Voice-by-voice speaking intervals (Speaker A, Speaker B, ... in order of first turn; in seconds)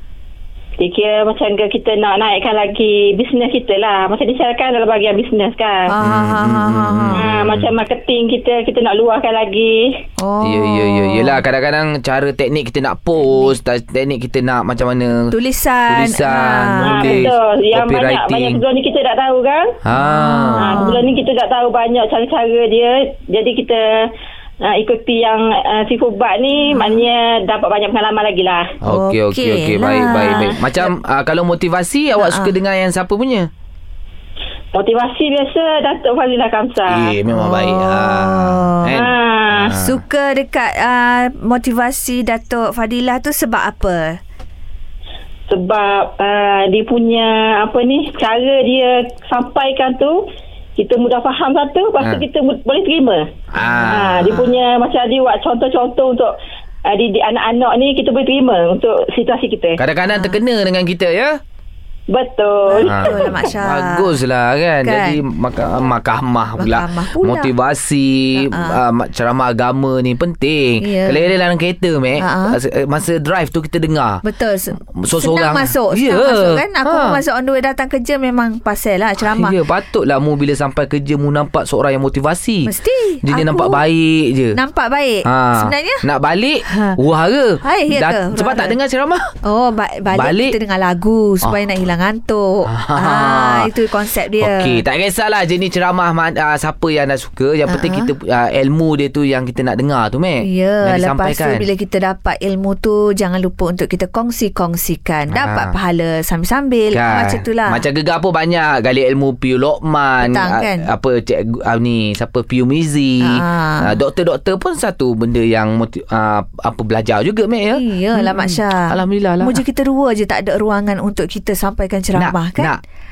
Speaker A: 0.8-5.9, 7.2-9.9, 16.8-19.8, 20.6-23.8, 24.6-28.7, 34.7-37.2, 38.9-39.7, 45.5-50.2, 50.8-53.3, 53.9-56.3, 56.9-59.8, 62.1-63.1
Speaker B: 5.9-7.2, 10.2-11.4, 13.3-13.5, 15.3-17.3, 19.9-21.0, 26.7-27.0, 28.9-30.9, 32.2-32.5, 37.3-39.0, 39.7-44.2, 53.6-54.4, 60.1-60.4, 62.7-64.1, 64.8-65.2, 66.6-67.5, 68.3-68.8, 70.8-71.2, 72.2-72.6, 74.2-79.6, 82.7-83.8, 84.5-86.0, 86.7-87.0, 87.6-88.8, 89.4-94.8, 97.7-98.1, 100.4-107.8, 110.2-110.9, 113.2-113.9, 117.8-122.7
Speaker C: 6.0-7.8, 10.4-15.3, 15.9-18.6, 19.8-20.9, 28.8-33.5, 36.9-40.0, 52.0-52.2, 53.5-54.5, 59.8-61.4, 62.8-74.2, 74.8-77.2, 79.2-82.7, 83.2-84.6, 85.2-89.3, 90.1-90.6, 92.7-93.7, 94.4-101.6, 105.3-105.7, 106.9-119.6, 122.2-122.8